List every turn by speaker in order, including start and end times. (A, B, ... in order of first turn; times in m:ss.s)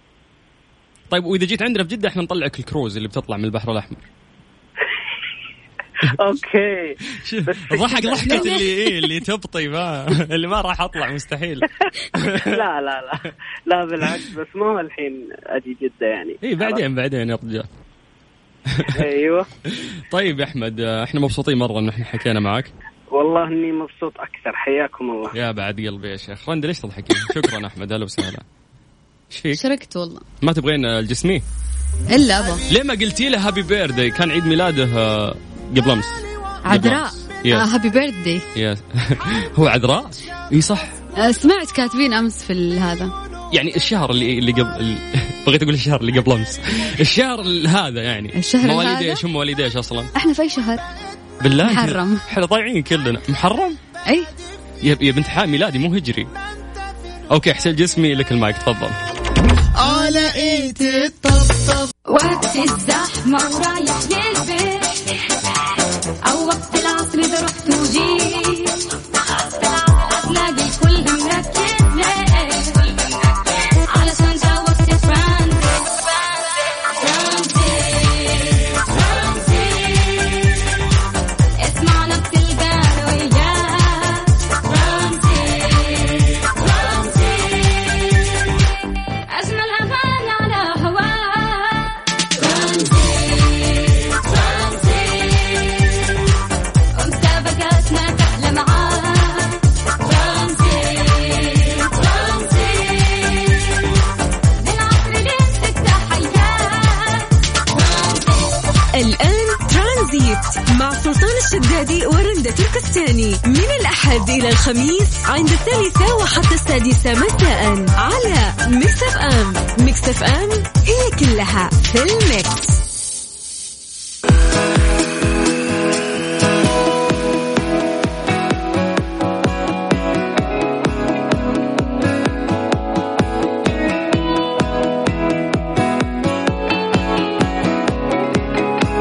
0:01.1-0:04.0 A
0:06.0-0:08.7 B
0:07.1-0:12.6 A
0:12.2-0:16.8 B
0:16.4-0:17.7 A
0:18.7-0:19.1 A
0:18.9-0:19.5 B
0:19.7-0:22.7 A
0:23.1-0:25.3 B
0:25.3-0:28.4 A
0:29.3-0:29.6 A
0:29.5-0:30.2 C
0:30.4-0:31.4 A
0:32.1-0:32.6 C
0:32.7-0:37.7 A
0:36.6-0:38.4 C
0:38.5-0:40.9 A
0:41.2-0:43.1 C
0:43.5-0:50.1 A
0:48.4-0:49.2 C
0:50.1-0:50.8 C
0:51.4-0:53.8 A
0:51.6-0:52.2 C
0:54.8-0:56.3 A
0:57.3-0:59.0 A
0:59.8-1:01.1 C
1:00.1-1:05.4 D
1:06.2-1:13.4 D
1:13.9-1:20.6 D
1:21.6-1:28.6 D
1:29.3-1:36.2 D
1:36.9-1:44.0 D
1:44.6-1:48.6 D
1:48.9-2:02.7 E